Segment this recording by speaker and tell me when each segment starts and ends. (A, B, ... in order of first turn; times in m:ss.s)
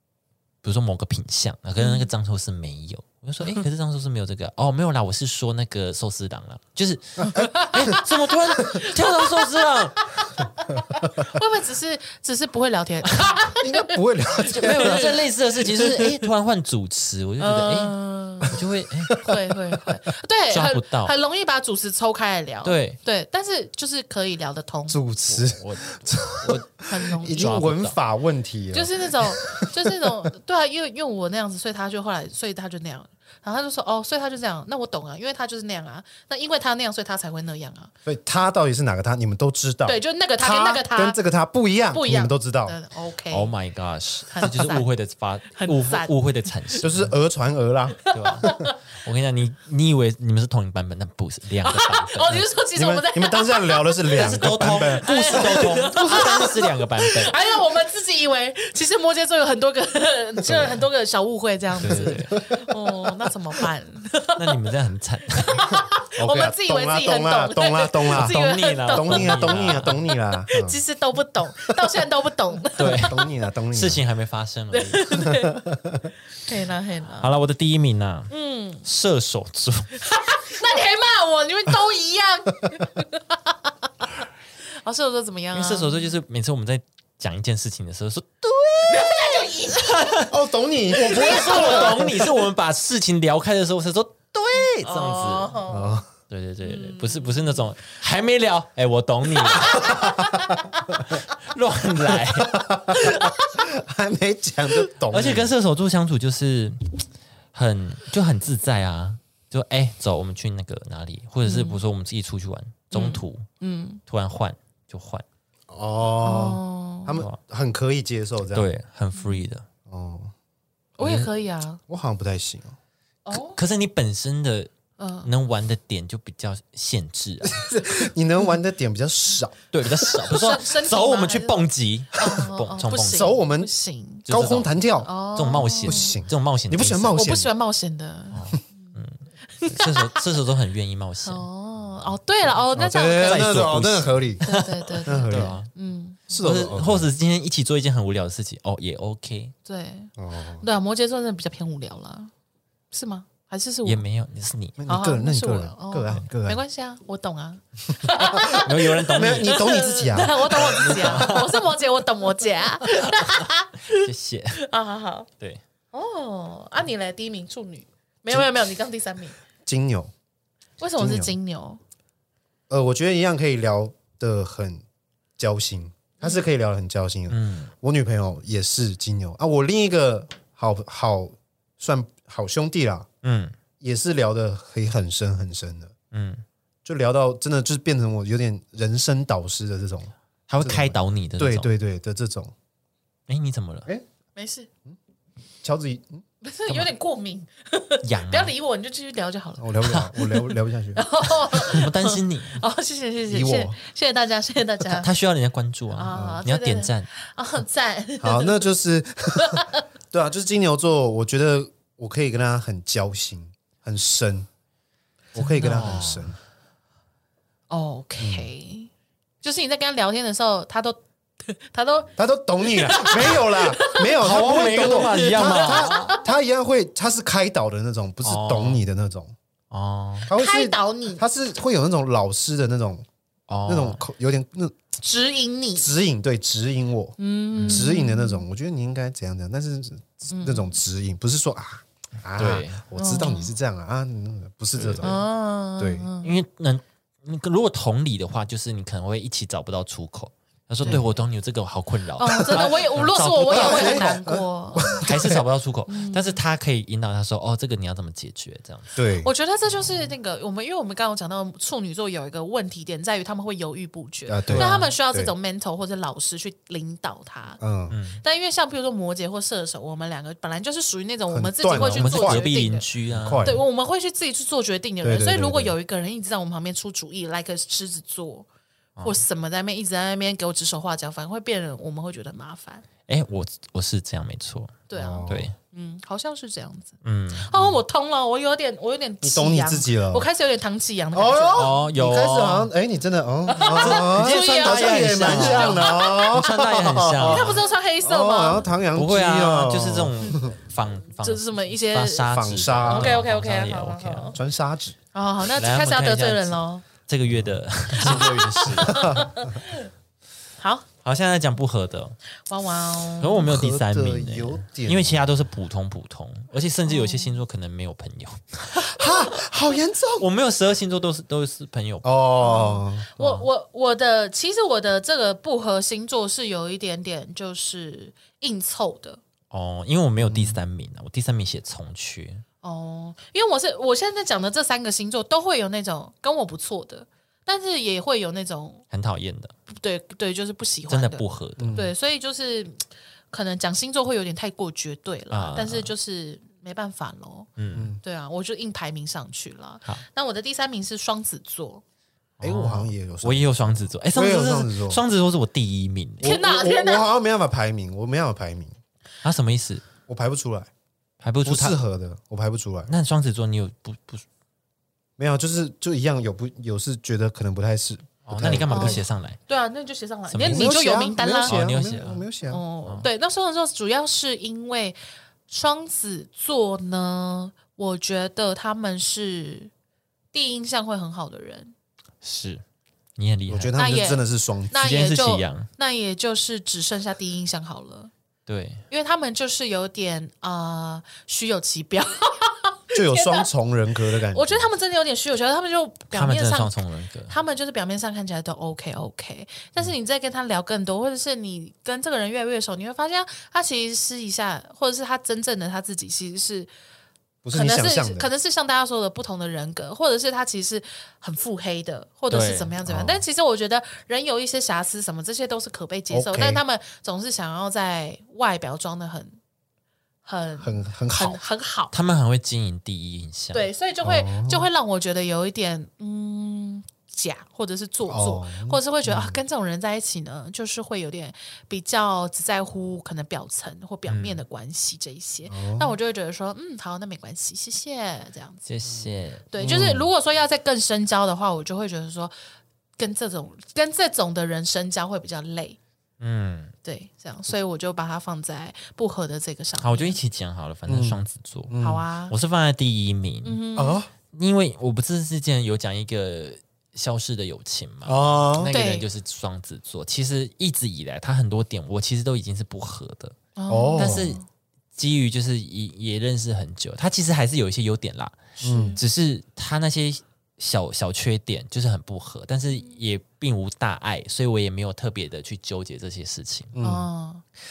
0:00.6-0:10.0 A
0:01.8-0:02.1 B
0:07.3-0:15.2 B
0:13.5-0:15.2 C
0:14.5-0:19.1 A
0:17.4-0:18.6 B
0:19.1-0:19.9 C
0:19.1-0:25.0 B
0:20.5-0:21.1 A
0:22.6-0:23.0 A
0:24.9-0:30.2 C
0:25.3-0:28.0 A
0:26.8-0:27.6 B
0:28.7-0:37.9 B
0:38.0-0:42.8 C
0:39.8-0:41.2 B
0:41.9-0:43.5 B
0:43.3-0:47.1 A
0:44.3-0:44.9 B
0:45.6-0:46.1 B
0:46.8-0:48.6 C
0:48.0-0:48.7 B
0:48.1-0:52.4 A
0:51.6-1:04.6 B
0:52.7-0:56.3 C
0:54.1-0:57.4 A
1:00.4-1:00.8 C
1:01.8-1:02.4 A
1:01.8-1:03.3 C
1:04.4-1:05.6 A
1:05.4-1:13.3 B
1:05.7-1:10.8 C
1:08.1-1:10.0 A
1:12.8-1:13.2 A
1:13.0-1:14.0 C
1:13.7-1:15.1 A
1:14.7-1:15.6 B
1:15.1-1:16.1 C
1:16.4-1:17.3 B
1:17.2-1:18.3 A
1:18.3-1:18.8 B
1:18.8-1:19.9 A
1:20.0-1:24.2 B
1:24.8-1:26.1 B
1:25.5-1:30.3 A
1:28.9-1:30.2 B
1:30.3-1:32.1 C
1:31.0-1:35.6 A
1:31.0-1:32.2 B
1:34.8-1:36.0 B
1:35.7-1:36.1 C
1:36.3-1:40.2 A
1:36.6-1:37.7 B
1:39.4-1:40.6 B
1:39.8-1:40.9 C
1:41.1-1:42.7 A
1:42.4-1:45.5 C
1:43.0-1:43.4 B
1:45.1-1:53.4 A
1:51.4-1:51.8 B
1:52.9-1:54.0 B
1:54.1-1:55.2 A
1:55.7-1:58.7 C
1:56.2-1:57.2 B
1:58.5-1:59.6 A
1:59.1-1:59.4 B
1:59.9-2:00.3 C
2:01.0-2:01.8 B
2:01.0-2:01.3 A
2:01.9-2:02.8 C
2:03.2-2:03.6 B
2:03.3-2:04.7 A
2:05.0-2:05.3 B
2:05.2-2:07.6 A
2:07.4-2:10.2 C
2:09.7-2:13.3 A
2:10.3-2:14.2 B
2:13.1-2:13.7 C
2:14.3-2:14.7 A
2:14.3-2:15.1 C
2:15.0-2:16.2 B
2:15.3-2:17.2 A
2:15.8-2:17.5 C
2:17.1-2:19.0 B
2:18.3-2:21.4 A
2:19.5-2:20.2 B
2:21.2-2:23.6 B
2:22.7-2:24.4 C
2:23.2-2:25.7 A
2:24.4-2:26.2 B
2:25.0-2:25.6 C
2:26.3-2:27.1 C
2:26.3-2:29.5 A
2:29.6-2:32.3 B
2:30.2-2:30.6 C
2:32.9-2:34.0 B
2:33.8-2:34.8 A
2:34.8-2:36.6 C
2:34.9-2:44.1 B
2:38.2-2:41.4 C
2:38.3-2:39.7 A
2:40.5-2:41.6 A
2:43.0-2:44.6 A
2:44.6-2:45.3 B
2:45.9-2:49.4 B
2:49.6-2:50.1 C
2:50.8-2:51.8 B
2:51.0-2:51.3 C
2:52.7-2:54.8 C
2:55.4-3:03.1 C
2:56.2-2:56.4 B
2:57.3-2:57.7 A
3:03.2-3:03.6 A
3:03.8-3:05.9 C
3:06.1-3:06.4 A
3:06.8-3:12.5 C
3:10.5-3:11.7 A
3:13.3-3:13.9 A
3:14.4-3:14.7 B
3:15.6-3:16.2 C
3:16.4-3:25.1 B
3:18.0-3:18.5 A
3:19.6-3:21.6 C
3:21.5-3:22.6 A
3:23.3-3:23.8 C
3:24.9-3:27.1 A
3:25.9-3:28.6 B
3:26.1-3:26.4 C
3:28.2-3:34.5 C
3:29.4-3:29.8 B
3:35.3-3:36.4 C
3:35.4-3:36.3 A
3:37.7-3:38.9 B
3:38.2-3:38.5 C
3:39.4-3:46.3 B
3:42.2-3:49.3 C
3:44.2-3:46.2 A
3:48.2-3:48.8 A
3:49.7-3:50.3 A
3:50.3-3:53.0 C
3:50.3-3:51.2 B
3:53.5-3:54.0 A
3:53.6-3:54.8 C
3:55.0-3:55.9 B
3:55.8-4:05.2 C
3:57.2-3:58.4 B
3:57.5-3:57.9 A
4:00.3-4:00.8 B
4:02.4-4:02.8 A
4:02.9-4:03.5 B
4:04.8-4:05.2 A
4:05.0-4:06.3 B
4:05.8-4:06.1 C
4:06.2-4:14.2 A
4:12.2-4:15.1 B
4:12.4-4:15.4 C
4:15.0-4:18.9 A
4:15.9-4:16.4 B
4:19.0-4:19.3 C
4:19.2-4:27.6 B
4:24.3-4:25.3 C
4:24.5-4:24.9 A
4:27.6-4:27.9 C
4:27.9-4:28.2 A
4:28.2-4:32.9 B
4:31.3-4:32.5 C
4:31.8-4:33.6 A
4:33.1-4:33.6 C
4:33.4-4:38.4 B
4:35.0-4:35.7 C
4:39.0-4:39.2 A
4:39.0-4:42.8 B
4:43.1-4:45.5 A
4:44.9-4:51.8 B
4:44.9-4:45.5 C
4:47.0-4:47.7 A
4:49.2-4:50.3 C
4:51.1-5:00.5 C
4:51.6-4:52.7 A
4:53.5-4:56.4 B
4:53.7-4:57.6 A
4:57.2-4:58.7 B
4:58.9-5:04.4 A
5:01.2-5:02.3 B
5:02.3-5:03.2 C
5:02.9-5:04.4 B
5:04.3-5:05.0 C
5:05.1-5:06.8 B
5:05.5-5:09.3 A
5:07.3-5:09.5 C
5:08.0-5:09.9 B
5:10.6-5:10.8 B
5:11.0-5:12.2 A
5:12.5-5:13.5 B
5:13.2-5:18.9 A
5:13.4-5:15.3 C
5:16.8-5:17.4 B
5:18.8-5:20.2 C
5:20.2-5:22.1 A
5:22.0-5:23.1 C
5:22.4-5:29.2 B
5:23.2-5:23.5 A
5:29.5-5:32.4 A
5:30.2-5:30.6 C
5:32.6-5:38.8 B
5:38.9-5:39.5 A
5:39.7-5:47.5 B
5:40.9-5:41.8 A
5:41.6-5:41.9 C
5:45.3-5:45.9 A
5:47.6-5:48.0 A
5:48.0-5:51.8 B
5:52.4-5:56.3 A
5:52.4-5:53.5 C
5:54.1-5:55.0 C
5:56.2-5:57.1 B
5:56.2-5:58.8 C
5:59.2-5:59.8 A
6:00.1-6:00.7 C
6:01.2-6:01.8 A
6:01.4-6:02.9 C
6:02.9-6:04.2 A
6:05.2-6:09.0 C
6:08.2-6:09.4 A
6:08.7-6:11.6 B
6:10.3-6:10.8 A
6:10.4-6:12.6 C
6:11.4-6:12.2 A
6:12.5-6:15.0 B
6:15.5-6:19.7 B
6:20.3-6:21.7 B
6:22.2-6:22.6 A
6:23.2-6:23.8 A
6:23.5-6:24.8 C
6:23.8-6:28.1 B
6:24.7-6:25.7 A
6:28.5-6:28.8 A
6:28.9-6:33.5 B
6:32.9-6:34.7 C
6:34.3-6:46.7 B
6:36.1-6:37.4 A
6:47.4-6:48.3 C
6:47.5-6:59.4 B
6:52.3-6:52.7 A
6:52.8-6:53.2 C
6:56.1-6:56.6 C
7:00.2-7:01.9 B
7:00.6-7:01.4 C
7:01.9-7:03.7 A
7:03.5-7:18.6 B
7:04.0-7:04.7 C
7:08.0-7:09.4 C
7:14.1-7:14.4 A
7:15.5-7:16.0 C
7:18.6-7:19.5 A
7:19.5-7:22.3 B
7:19.6-7:20.1 C
7:23.0-7:25.8 B
7:26.2-7:26.7 A
7:26.8-7:30.2 B
7:29.8-7:31.7 A
7:30.9-7:32.0 C
7:31.8-7:32.3 B
7:32.3-7:33.6 A
7:33.4-7:34.0 B
7:33.8-7:34.1 C
7:34.3-7:43.4 A
7:38.0-7:38.7 C
7:38.7-7:39.0 B
7:43.6-7:44.4 B
7:43.7-7:44.3 C
7:44.0-7:44.4 A
7:45.0-7:56.7 A
7:48.6-7:49.0 C
7:48.6-7:49.0 B
7:52.7-7:53.0 B
7:56.7-7:57.1 C
7:56.8-7:57.4 B